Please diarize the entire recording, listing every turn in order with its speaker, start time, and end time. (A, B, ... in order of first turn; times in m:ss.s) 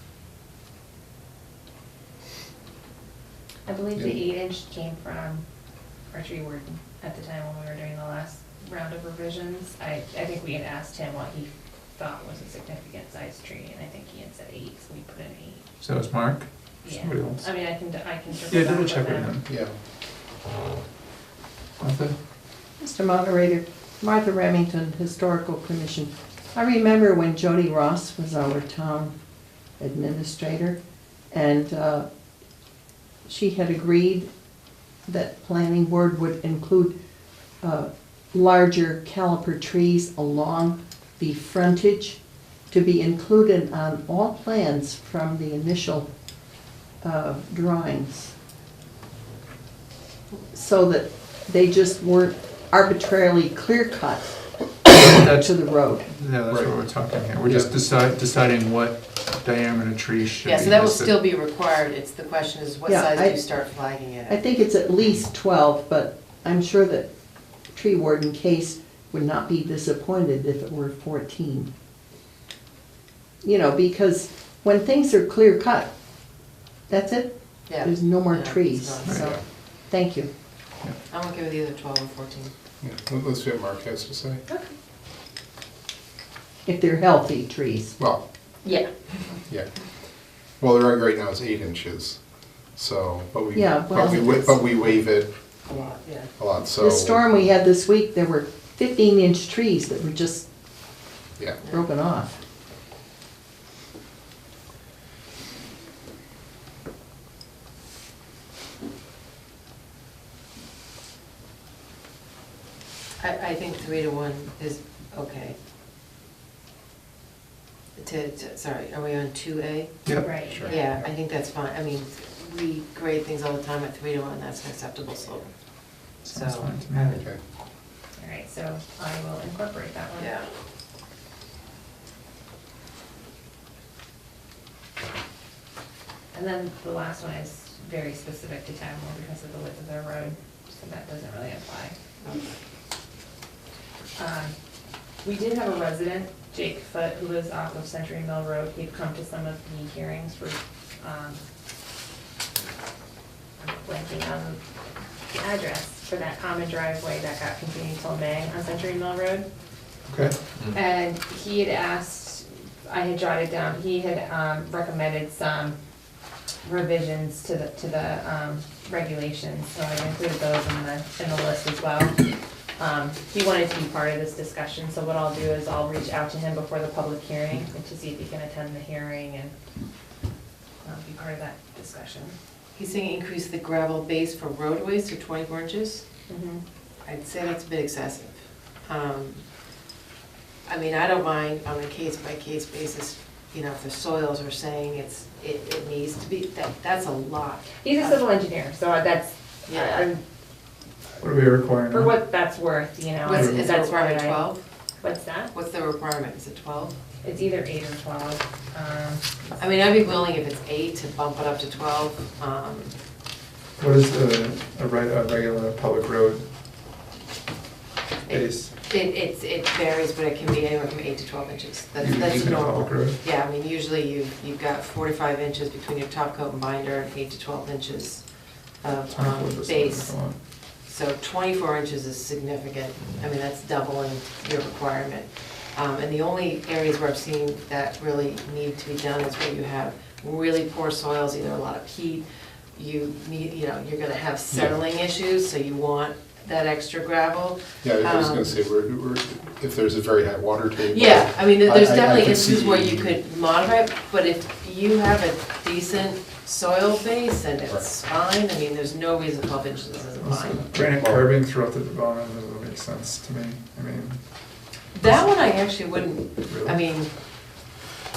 0:03.6-0:05.4 A
0:06.1-0:15.6 A
0:15.8-0:17.6 B
0:16.9-0:19.3 A
0:18.5-0:19.5 B
0:19.5-0:19.7 C
0:21.8-0:22.2 B
0:22.8-0:29.1 D
0:29.8-0:30.8 D
0:31.3-0:32.1 D
0:33.3-0:34.3 D
0:35.1-0:37.0 D
0:37.6-0:42.2 D
0:42.7-0:46.1 D
0:47.0-0:48.3 D
0:50.5-0:56.1 D
0:54.9-1:01.2 B
0:56.5-0:56.8 C
0:57.4-0:57.7 C
1:00.4-1:04.4 E
1:02.9-1:03.4 D
1:04.3-1:07.1 D
1:07.7-1:11.7 D
1:13.4-1:15.9 D
1:16.9-1:20.3 D
1:17.7-1:19.4 E
1:19.0-1:19.3 B
1:19.2-1:19.4 C
1:21.1-1:22.5 E
1:22.8-1:24.4 C
1:26.6-1:28.0 D
1:30.6-1:32.2 C
1:32.8-1:35.3 C
1:33.5-1:34.6 D
1:35.7-1:36.3 E
1:36.4-1:37.3 C
1:36.8-1:40.5 D
1:41.4-1:41.6 C
1:41.6-1:42.4 D
1:53.2-1:55.6 E
1:58.0-2:05.5 E
2:00.2-2:00.9 A
2:06.2-2:07.2 B
2:06.2-2:07.2 E
2:07.1-2:07.4 C
2:08.2-2:10.3 A
2:10.2-2:10.5 E
2:16.3-2:22.0 A
2:24.2-2:24.6 A
2:25.2-2:31.4 A
2:33.6-2:34.6 A
2:35.3-2:39.5 A
2:40.1-2:40.4 B
2:40.7-2:45.8 A
2:46.6-2:52.3 A
2:52.8-2:59.6 A
3:00.8-3:02.4 A
3:02.8-3:06.0 E
3:06.3-3:06.6 A
3:07.1-3:09.4 E
3:10.7-3:18.2 E
3:17.8-3:20.2 A
3:19.7-3:20.0 E
3:21.2-3:22.2 B
3:21.9-3:24.5 A
3:23.2-3:24.6 E
3:23.3-3:23.7 B
3:25.0-3:25.5 A
3:25.5-3:27.0 E
3:27.2-3:29.6 A
3:29.6-3:33.0 E
3:33.8-3:36.5 B
3:38.3-3:48.3 E
3:38.3-3:38.7 B
3:42.0-3:43.2 B
3:48.8-3:50.1 E
3:49.1-3:50.4 B
3:50.8-4:08.6 E
4:07.8-4:13.2 C
4:10.9-4:20.6 E
4:20.2-4:24.2 B
4:20.8-4:21.3 C
4:24.9-4:27.1 E
4:26.4-4:26.8 B